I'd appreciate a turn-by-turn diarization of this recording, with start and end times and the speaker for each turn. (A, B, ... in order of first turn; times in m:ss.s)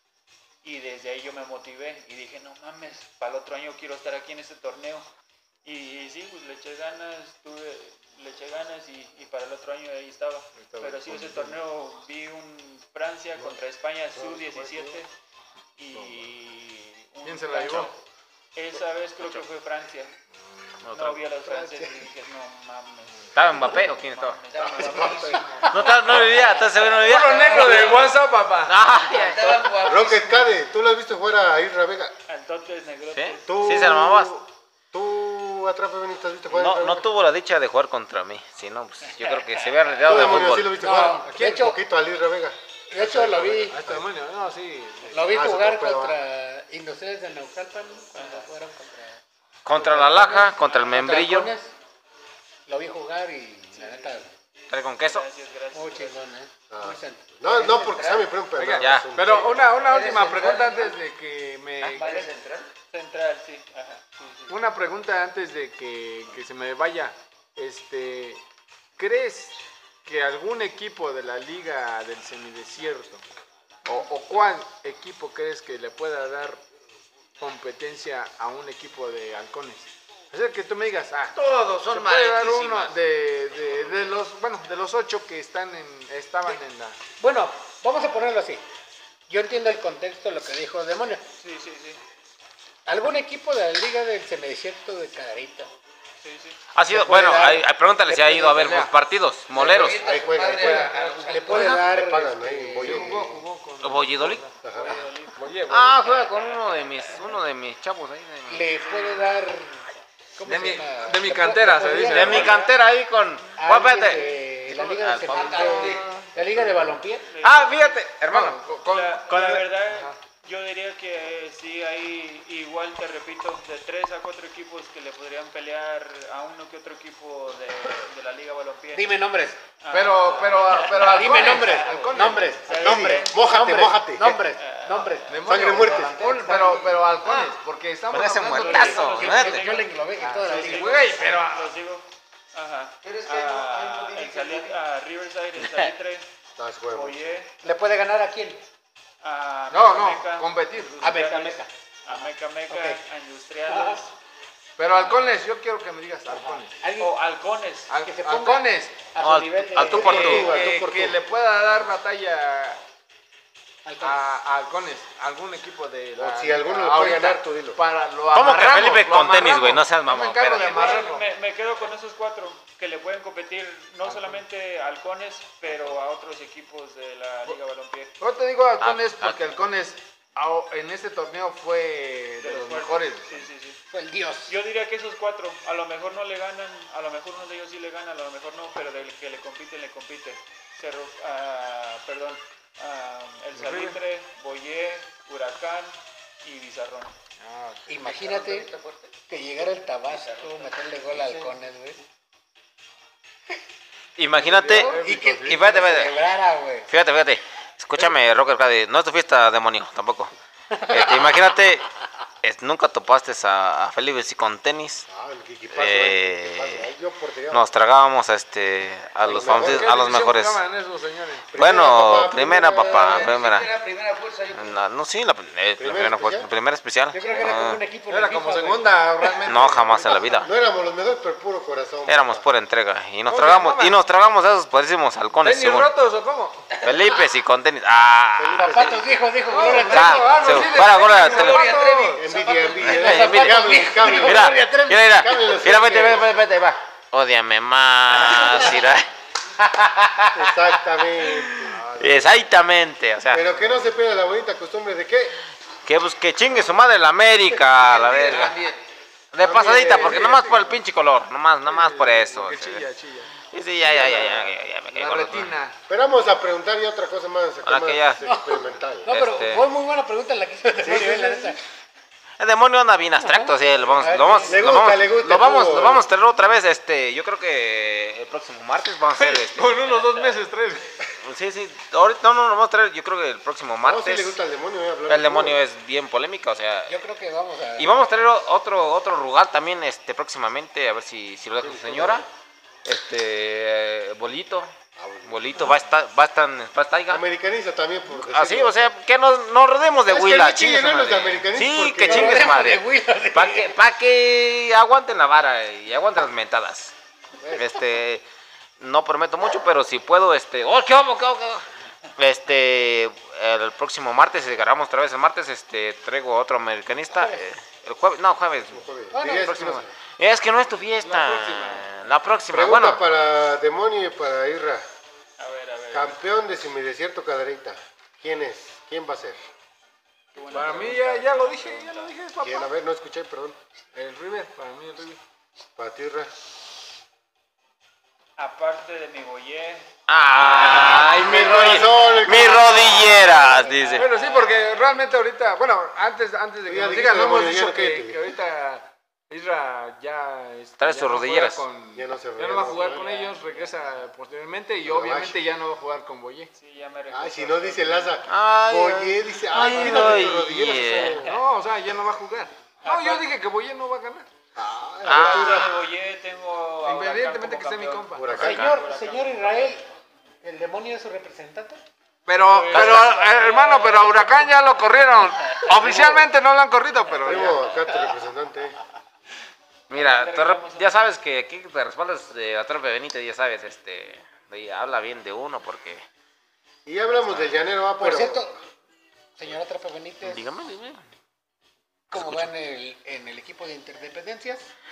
0:00.6-0:05.1 A
0:05.6-0:15.1 A
0:10.6-0:11.6 B
0:14.2-0:14.8 C
0:15.8-0:18.0 A
0:15.9-0:16.2 B
0:17.2-0:17.9 B
0:18.5-0:20.1 A
0:20.8-0:21.2 D
0:20.9-0:26.9 A
0:23.3-0:24.4 D
0:24.5-0:25.8 E
0:25.0-0:25.8 F
0:25.7-0:28.1 D
0:27.0-0:28.8 B
0:27.3-0:28.1 E
0:28.6-0:29.8 D
0:29.0-0:30.6 E
0:29.8-0:32.1 C
0:32.3-0:33.6 A
0:33.1-0:34.3 D
0:33.4-0:37.1 C
0:36.5-0:40.7 D
0:39.0-0:39.9 A
0:40.0-0:44.0 C
0:40.8-0:41.8 F
0:42.9-0:43.8 F
0:43.7-0:45.4 B
0:45.1-0:49.2 F
0:45.3-0:46.2 C
0:48.1-0:48.5 A
0:49.6-0:51.5 D
0:49.7-0:51.7 F
0:52.7-0:54.3 F
0:53.7-0:54.2 A
0:54.7-0:55.2 D
0:55.0-0:56.2 A
0:55.7-0:58.2 F
0:56.7-0:59.7 C
0:57.9-0:58.3 E
0:58.5-1:02.0 B
0:58.8-0:59.2 D
0:59.6-1:01.0 E
1:02.0-1:02.7 E
1:02.0-1:02.3 A
1:02.9-1:04.6 A
1:04.5-1:08.4 B
1:09.0-1:13.2 B
1:13.8-1:16.6 B
1:17.4-1:27.0 B
1:21.3-1:22.9 E
1:27.2-1:28.6 F
1:29.3-1:31.2 F
1:31.4-1:32.0 A
1:32.8-1:35.7 F
1:36.2-1:36.6 A
1:36.7-1:40.0 D
1:36.9-1:38.9 F
1:38.6-1:38.9 B
1:39.6-1:41.7 E
1:39.6-1:41.0 C
1:40.6-1:43.4 F
1:40.6-1:41.8 B
1:41.5-1:43.3 C
1:42.8-1:44.6 B
1:43.8-1:45.0 D
1:44.6-1:45.5 C
1:44.6-1:45.5 A
1:45.4-1:46.0 B
1:45.7-1:48.7 D
1:46.0-1:47.2 A
1:48.5-1:49.8 F
1:50.4-1:52.6 F
1:50.4-1:52.5 B
1:52.1-1:56.1 D
1:52.3-1:52.8 A
1:53.6-1:57.2 F
1:55.2-1:56.2 E
1:56.4-1:57.0 C
1:57.3-1:58.0 A
1:57.4-1:58.6 D
1:58.3-1:59.2 B
1:58.8-2:09.2 A
1:59.3-1:59.6 D
1:59.8-2:00.2 B
2:08.9-2:09.6 F
2:09.8-2:13.4 A
2:09.9-2:12.9 B
2:10.9-2:17.2 F
2:12.8-2:14.4 C
2:14.6-2:15.7 A
2:15.3-2:19.2 B
2:15.4-2:16.6 C
2:18.1-2:19.6 D
2:18.5-2:26.3 A
2:18.6-2:20.9 F
2:20.2-2:21.8 B
2:23.0-2:24.8 E
2:26.6-2:27.4 C
2:26.9-2:27.5 A
2:27.6-2:28.6 F
2:29.2-2:34.1 A
2:29.7-2:31.0 B
2:31.0-2:33.0 F
2:33.7-2:34.0 F
2:34.8-2:36.8 B
2:34.9-2:35.4 A
2:36.3-2:37.2 F
2:37.0-2:37.9 A
2:37.9-2:39.1 B
2:38.0-2:40.6 F
2:39.2-2:40.5 D
2:39.8-2:41.2 C
2:39.9-2:42.8 B
2:43.8-2:44.2 F
2:44.0-2:51.2 B
2:46.1-2:47.8 C
2:48.3-2:50.9 D
2:50.5-2:58.1 A
2:54.0-2:54.4 B
2:58.2-3:03.4 B
2:58.8-2:59.6 D
3:02.4-3:03.8 A
3:03.9-3:04.6 F
3:04.5-3:17.1 A
3:13.5-3:14.0 B
3:17.4-3:17.9 B
3:17.9-3:18.7 F
3:18.0-3:21.3 E
3:19.3-3:22.0 F
3:24.2-3:26.2 D
3:24.3-3:26.0 B
3:24.6-3:26.9 F
3:26.9-3:30.3 D
3:30.7-3:31.4 F
3:30.9-3:31.9 D
3:32.4-3:35.0 D
3:35.1-3:37.7 C
3:35.7-3:36.9 D
3:37.5-3:40.6 D
3:39.2-3:40.0 C
3:39.2-3:41.5 B
3:41.5-3:43.3 C
3:41.5-3:43.7 D
3:42.7-3:44.8 E
3:44.5-3:47.8 D
3:45.8-3:46.5 C
3:47.1-3:49.4 F
3:48.1-3:50.4 B
3:49.4-3:50.5 D
3:50.4-3:52.4 C
3:52.1-3:55.9 D
3:53.3-3:54.0 B
3:55.4-3:56.7 B
3:56.8-3:58.9 D
3:58.4-3:59.1 C
3:58.6-4:00.7 F
3:59.5-4:02.2 B
3:59.8-4:01.7 D
4:00.7-4:02.8 E
4:02.2-4:06.3 C
4:02.3-4:05.2 F
4:02.8-4:10.6 D
4:08.2-4:08.8 F
4:10.3-4:11.8 C
4:11.2-4:13.4 D
4:11.7-4:12.3 B
4:13.3-4:15.4 C
4:13.3-4:13.9 B
4:15.8-4:18.6 D
4:17.7-4:18.8 E
4:19.3-4:22.9 D
4:19.4-4:20.8 B
4:21.6-4:25.8 B
4:23.4-4:25.5 D
4:25.9-4:29.1 C
4:27.6-4:28.2 D
4:28.2-4:31.6 F
4:29.1-4:29.6 D
4:30.8-4:31.6 C
4:32.4-4:39.9 D
4:33.2-4:34.8 F
4:34.4-4:36.1 C
4:39.1-4:41.0 B
4:41.2-4:44.4 D
4:43.8-4:45.6 C
4:45.1-4:46.9 D
4:46.9-4:47.9 F
4:47.8-4:52.3 D
4:51.6-4:52.2 C
4:52.8-4:54.7 D
4:55.0-4:55.7 C
4:55.2-4:57.2 D
4:57.1-4:58.9 C
4:58.1-5:06.9 D
5:00.0-5:02.6 C
5:02.0-5:03.7 F
5:07.4-5:07.8 C
5:07.5-5:08.2 D
5:08.8-5:11.6 D
5:12.2-5:23.0 D
5:17.1-5:17.4 F
5:18.7-5:19.9 C
5:19.1-5:19.6 F
5:21.0-5:21.9 B
5:22.5-5:24.8 C
5:25.4-5:26.2 A
5:25.9-5:29.4 C
5:30.3-5:32.1 A
5:30.5-5:32.7 B
5:32.4-5:33.6 C
5:33.9-5:35.2 B
5:35.8-5:36.3 C
5:38.4-5:39.9 A
5:40.1-5:44.1 D
5:40.4-5:41.2 A
5:40.7-5:43.5 C
5:43.5-5:44.7 A
5:43.9-5:56.5 B
5:46.6-5:48.2 C
5:50.8-5:51.6 D
5:51.9-5:53.1 C
5:52.5-5:53.8 A
5:54.8-5:55.4 C
5:56.5-5:58.2 A
5:57.1-6:01.4 C
5:58.3-6:01.3 D
5:59.7-6:04.3 B
6:02.8-6:03.3 A
6:04.6-6:05.8 C
6:05.0-6:05.7 D
6:05.1-6:09.8 A
6:06.8-6:08.3 B
6:08.2-6:08.8 C
6:08.3-6:09.8 F
6:10.4-6:11.8 F
6:12.3-6:17.8 B
6:12.5-6:14.5 A
6:12.7-6:13.2 D
6:15.8-6:16.3 C
6:17.2-6:18.8 C
6:19.9-6:26.0 D
6:19.9-6:21.0 A
6:26.8-6:28.4 C
6:27.1-6:27.6 D
6:28.0-6:28.6 F
6:29.4-6:30.4 F
6:30.2-6:31.0 D
6:32.1-6:34.7 F
6:32.1-6:32.5 D